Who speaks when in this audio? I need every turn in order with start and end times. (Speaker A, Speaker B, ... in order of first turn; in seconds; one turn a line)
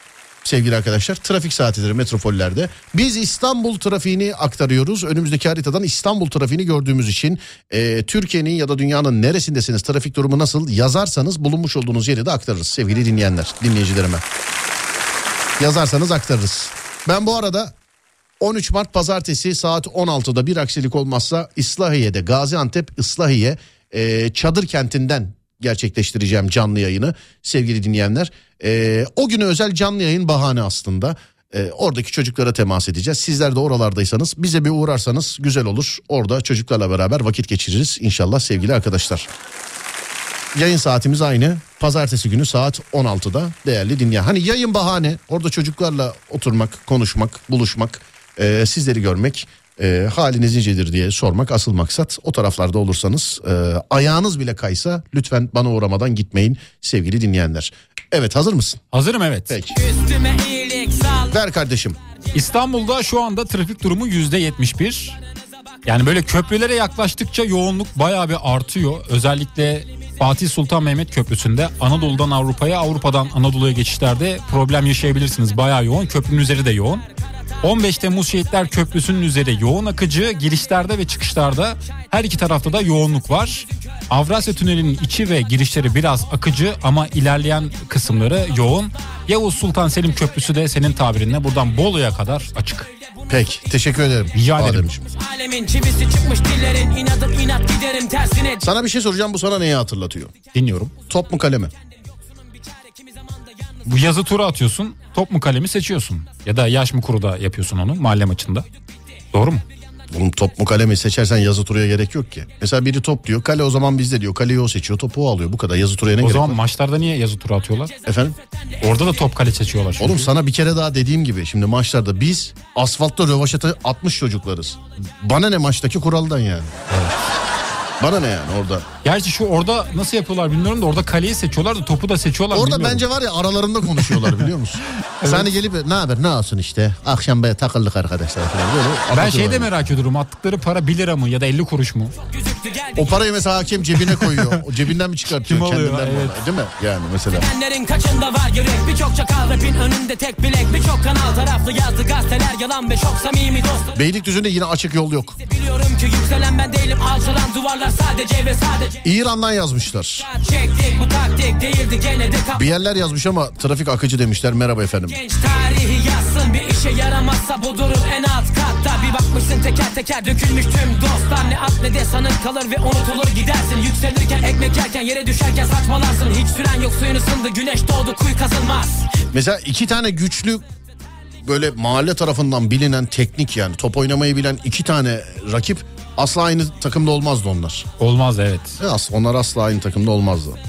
Speaker A: 0.4-14.2
Speaker A: 15.6-17.7
Speaker A: 18.4-39.3
Speaker A: 40.5-58.8
Speaker B: 58.9-59.6
Speaker A: 59.5-59.8
Speaker C: 59.7-61.4
Speaker A: 61.3-62.0
Speaker B: 62.3-65.2
Speaker B: 65.9-77.1
Speaker B: 77.6-92.9
Speaker A: 93.3-95.1
Speaker B: 94.3-94.9
Speaker C: 95.1-98.7
Speaker A: 98.6-100.3
Speaker B: 100.5-100.9
Speaker A: 101.1-101.7
Speaker C: 102.5-103.8
Speaker B: 103.8-108.7
Speaker B: 109.3-109.7
Speaker A: 110.1-116.6
Speaker B: 116.2-117.9
Speaker C: 117.9-119.1
Speaker A: 118.0-118.3
Speaker B: 118.8-120.3
Speaker A: 120.0-126.7
Speaker B: 126.9-127.3
Speaker A: 128.0-128.9
Speaker B: 129.0-133.1
Speaker A: 132.5-139.8
Speaker B: 133.9-135.5
Speaker B: 139.1-142.1
Speaker C: 142.3-143.2
Speaker A: 143.0-147.5
Speaker B: 144.0-144.7
Speaker B: 145.3-146.4
Speaker C: 147.3-154.0
Speaker A: 153.9-155.4
Speaker C: 155.4-159.0
Speaker A: 159.0-160.3
Speaker C: 160.2-162.7
Speaker A: 162.5-165.2
Speaker C: 165.1-179.1
Speaker A: 179.3-180.7
Speaker A: 181.4-187.9
Speaker B: 188.0-188.8
Speaker A: 188.8-190.6